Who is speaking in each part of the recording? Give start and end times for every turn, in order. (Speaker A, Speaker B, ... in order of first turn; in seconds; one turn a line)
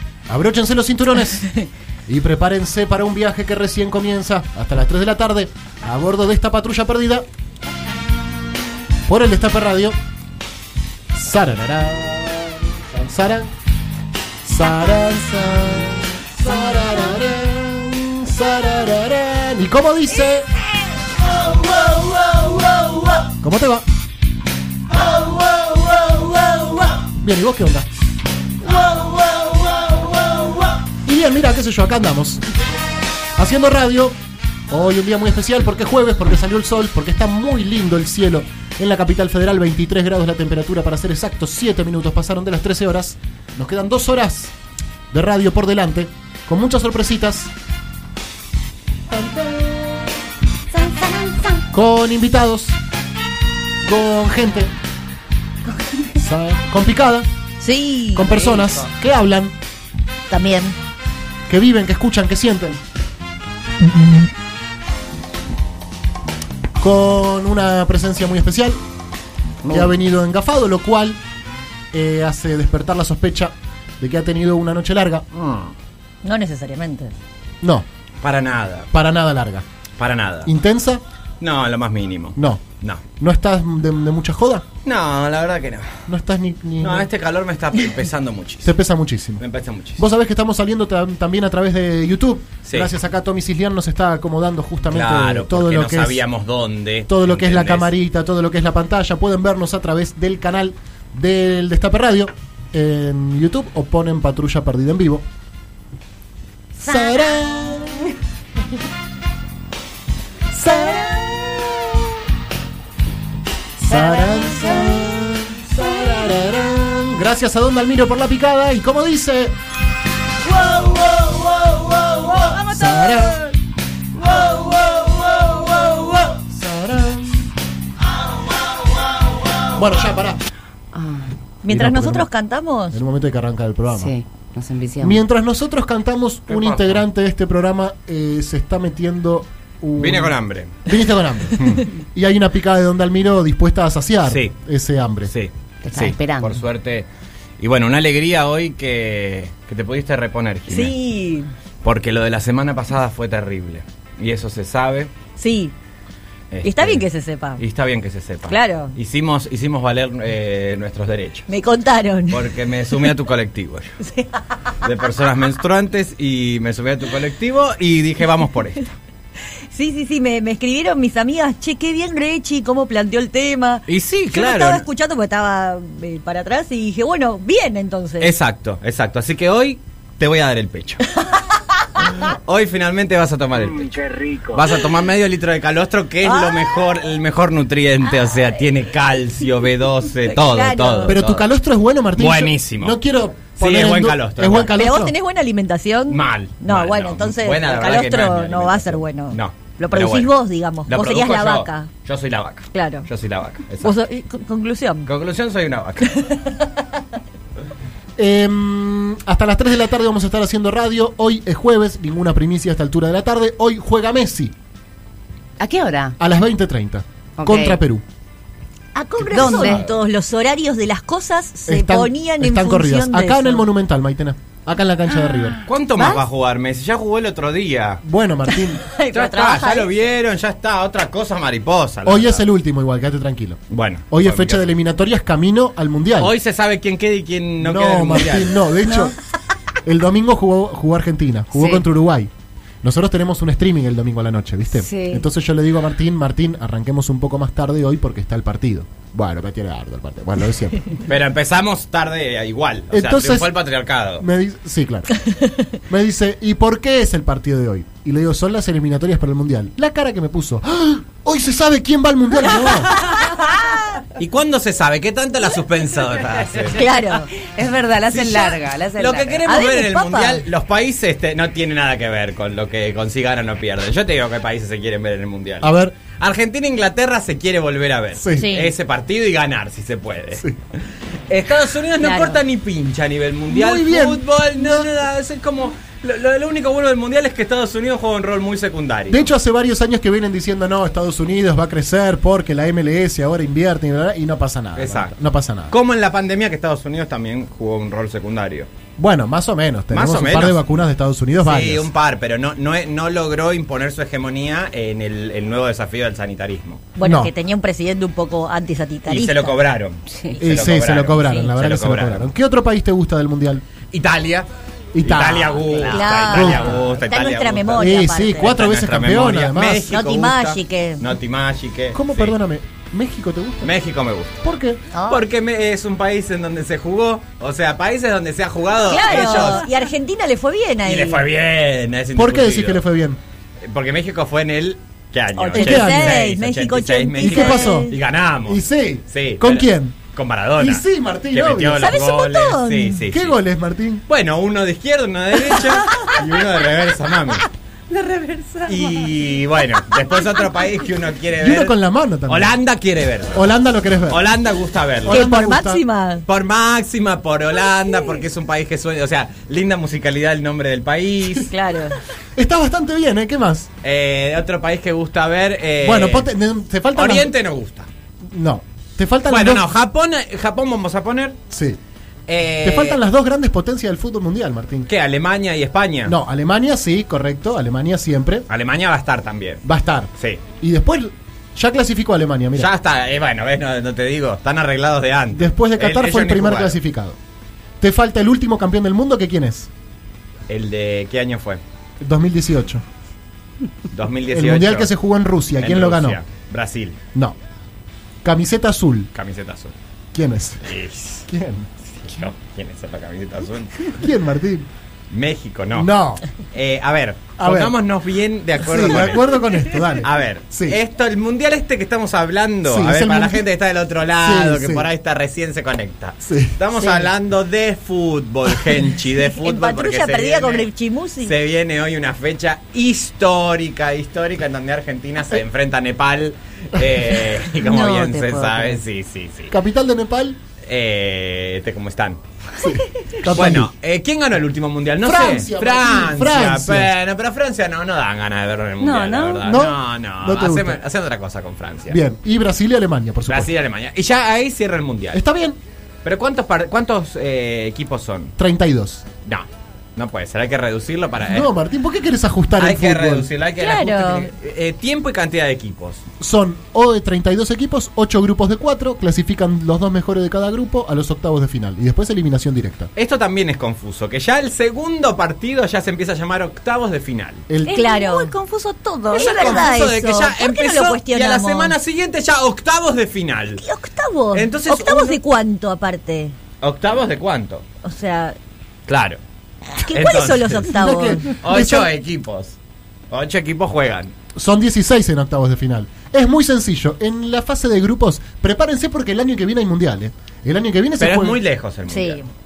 Speaker A: 0.3-1.5
Speaker A: 2.1-7.3
Speaker A: 9.1-10.0
Speaker A: 11.1-13.5
Speaker A: 14.4-20.5
Speaker A: 21.9-22.4
Speaker A: 23.2-23.8
Speaker A: 25.3-28.0
Speaker A: 28.7-32.4
Speaker A: 33.4-34.2
Speaker A: 34.7-44.5
Speaker A: 45.1-47.5
Speaker A: 49.1-50.0
Speaker B: 50.7-51.6
Speaker A: 51.7-52.8
Speaker A: 53.8-54.7
Speaker A: 56.2-57.3
Speaker B: 57.6-58.7
Speaker A: 58.1-59.5
Speaker B: 60.3-60.8
Speaker A: 61.5-62.8
Speaker A: 66.8-68.8
Speaker A: 69.7-71.2
Speaker A: 71.9-75.2
Speaker C: 75.3-75.7
Speaker B: 76.2-77.1
Speaker C: 78.2-78.9
Speaker A: 78.9-79.6
Speaker C: 80.0-80.5
Speaker A: 80.5-81.0
Speaker C: 81.4-83.0
Speaker A: 82.4-82.6
Speaker A: 83.2-84.7
Speaker C: 84.8-86.0
Speaker A: 86.1-87.1
Speaker C: 86.8-88.7
Speaker A: 88.6-89.4
Speaker C: 89.4-90.0
Speaker A: 90.0-96.2
Speaker C: 92.6-92.9
Speaker C: 94.9-97.9
Speaker A: 97.1-105.2
Speaker A: 106.8-108.1
Speaker D: 106.8-107.3
Speaker A: 110.5-112.1
Speaker A: 113.8-119.6
Speaker D: 113.9-115.0
Speaker B: 114.1-114.8
Speaker A: 120.5-123.5
Speaker A: 124.2-127.5
Speaker A: 129.7-130.4
Speaker D: 130.9-131.3
Speaker B: 131.6-133.0
Speaker A: 131.7-132.3
Speaker A: 132.9-134.1
Speaker D: 133.9-135.2
Speaker A: 135.0-145.3
Speaker C: 136.5-137.0
Speaker C: 140.0-140.8
Speaker C: 141.6-141.9
Speaker C: 144.2-144.5
Speaker C: 145.3-147.1
Speaker D: 145.8-146.6
Speaker C: 147.6-150.9
Speaker B: 150.7-151.5
Speaker C: 151.8-155.1
Speaker B: 155.4-155.7
Speaker C: 156.5-157.1
Speaker B: 156.6-157.6
Speaker C: 157.6-161.5
Speaker B: 158.5-158.9
Speaker B: 161.5-162.4
Speaker C: 162.3-163.9
Speaker B: 164.0-164.4
Speaker C: 164.8-168.9
Speaker B: 169.7-178.3
Speaker C: 173.9-174.8
Speaker C: 178.2-181.1
Speaker B: 181.2-182.2
Speaker C: 182.0-191.5
Speaker B: 186.2-186.9
Speaker B: 190.3-191.2
Speaker A: 191.1-195.2
Speaker C: 192.2-193.0
Speaker C: 193.5-194.8
Speaker B: 194.8-201.9
Speaker C: 196.1-200.3
Speaker C: 200.9-203.9
Speaker B: 202.7-203.1
Speaker B: 203.8-205.1
Speaker C: 205.1-206.1
Speaker B: 206.0-206.7
Speaker A: 208.2-214.5
Speaker D: 215.6-216.2
Speaker A: 216.2-218.0
Speaker D: 217.4-217.8
Speaker B: 218.9-223.7
Speaker D: 219.3-219.8
Speaker A: 219.4-219.6
Speaker C: 219.5-219.8
Speaker A: 221.7-225.7
Speaker C: 225.7-228.0
Speaker D: 225.9-226.2
Speaker A: 228.0-228.8
Speaker B: 228.7-229.9
Speaker C: 229.1-232.5
Speaker A: 232.1-236.3
Speaker C: 233.7-234.7
Speaker C: 236.2-238.6
Speaker A: 237.6-239.2
Speaker D: 238.8-239.1
Speaker A: 239.8-242.3
Speaker A: 242.8-251.0
Speaker D: 244.8-245.2
Speaker C: 251.1-254.2
Speaker A: 252.9-253.5
Speaker A: 254.2-255.1
Speaker B: 255.2-255.6
Speaker A: 255.9-262.9
Speaker B: 263.0-263.9
Speaker C: 264.2-266.9
Speaker B: 266.7-267.3
Speaker D: 267.4-269.4
Speaker C: 268.1-280.5
Speaker B: 269.4-270.4
Speaker A: 275.6-275.9
Speaker A: 278.2-278.6
Speaker B: 278.3-278.7
Speaker C: 281.3-289.3
Speaker B: 282.0-282.4
Speaker A: 283.5-284.9
Speaker A: 289.1-295.7
Speaker C: 294.8-295.1
Speaker C: 295.7-298.7
Speaker A: 299.0-301.9
Speaker C: 299.9-300.6
Speaker C: 301.4-306.9
Speaker B: 307.0-309.6
Speaker A: 307.0-307.3
Speaker C: 309.1-312.3
Speaker A: 310.4-313.6
Speaker C: 313.9-314.5
Speaker A: 314.9-316.8
Speaker C: 315.0-322.4
Speaker B: 315.9-318.5
Speaker A: 317.8-319.9
Speaker B: 319.9-321.0
Speaker A: 321.9-323.8
Speaker C: 323.6-324.4
Speaker A: 324.4-324.8
Speaker B: 324.9-325.2
Speaker C: 325.1-329.7
Speaker B: 328.9-331.2
Speaker C: 330.9-332.8
Speaker A: 332.2-333.2
Speaker C: 333.6-343.4
Speaker B: 335.4-337.9
Speaker A: 335.5-336.2
Speaker A: 337.2-337.9
Speaker A: 338.4-340.0
Speaker A: 340.6-342.0
Speaker B: 341.8-343.1
Speaker A: 343.1-344.0
Speaker C: 344.1-347.4
Speaker B: 345.6-346.2
Speaker B: 347.9-348.6
Speaker C: 348.6-351.8
Speaker A: 351.4-352.6
Speaker C: 352.3-353.4
Speaker A: 353.3-354.3
Speaker C: 354.1-355.3
Speaker A: 355.1-355.8
Speaker B: 355.1-356.2
Speaker C: 356.2-361.5
Speaker B: 361.5-361.9
Speaker A: 362.4-363.7
Speaker C: 363.8-366.3
Speaker A: 365.8-367.3
Speaker C: 366.9-367.9
Speaker A: 368.3-369.6
Speaker C: 369.3-371.4
Speaker A: 371.5-371.8
Speaker C: 372.3-373.0
Speaker A: 372.6-374.9
Speaker C: 374.9-376.1
Speaker A: 376.1-378.4
Speaker C: 378.5-379.6
Speaker A: 379.6-382.7
Speaker C: 380.2-380.4
Speaker C: 382.6-386.8
Speaker A: 385.3-387.2
Speaker A: 387.8-389.7
Speaker C: 390.5-391.6
Speaker A: 392.0-392.8
Speaker C: 393.9-394.9
Speaker A: 394.3-396.2
Speaker C: 395.6-397.0
Speaker A: 398.2-399.1
Speaker C: 399.1-399.7
Speaker A: 400.1-400.6
Speaker C: 400.6-401.3
Speaker A: 401.3-401.7
Speaker C: 401.9-403.9
Speaker A: 403.9-404.7
Speaker C: 405.1-405.9
Speaker A: 405.8-406.2
Speaker C: 406.5-420.7
Speaker A: 407.4-407.8
Speaker A: 408.6-410.8
Speaker A: 412.7-413.4
Speaker A: 414.2-414.9
Speaker A: 416.2-416.6
Speaker B: 419.2-421.3
Speaker C: 421.2-429.5
Speaker D: 427.6-428.8
Speaker A: 429.5-430.4
Speaker C: 430.6-432.2
Speaker A: 432.6-433.7
Speaker C: 433.2-442.0
Speaker A: 435.0-436.9
Speaker D: 438.8-439.4
Speaker A: 439.4-440.8
Speaker A: 441.9-443.5
Speaker C: 443.3-445.2
Speaker A: 445.1-445.6
Speaker C: 446.0-448.3
Speaker A: 448.4-449.1
Speaker C: 449.2-451.5
Speaker A: 451.3-453.3
Speaker C: 452.6-456.0
Speaker B: 453.6-454.3
Speaker A: 456.2-462.9
Speaker C: 462.9-467.4
Speaker A: 467.5-467.8
Speaker D: 467.7-469.8
Speaker B: 467.7-468.3
Speaker B: 469.1-471.8
Speaker C: 469.1-473.6
Speaker B: 473.6-476.4
Speaker C: 474.3-475.2
Speaker C: 476.6-477.6
Speaker B: 477.8-478.4
Speaker C: 478.9-479.2
Speaker B: 479.7-481.4
Speaker C: 479.9-480.7
Speaker A: 480.7-481.9
Speaker C: 481.3-482.6
Speaker C: 483.1-484.1
Speaker A: 484.4-491.4
Speaker C: 491.0-492.2
Speaker B: 491.9-492.3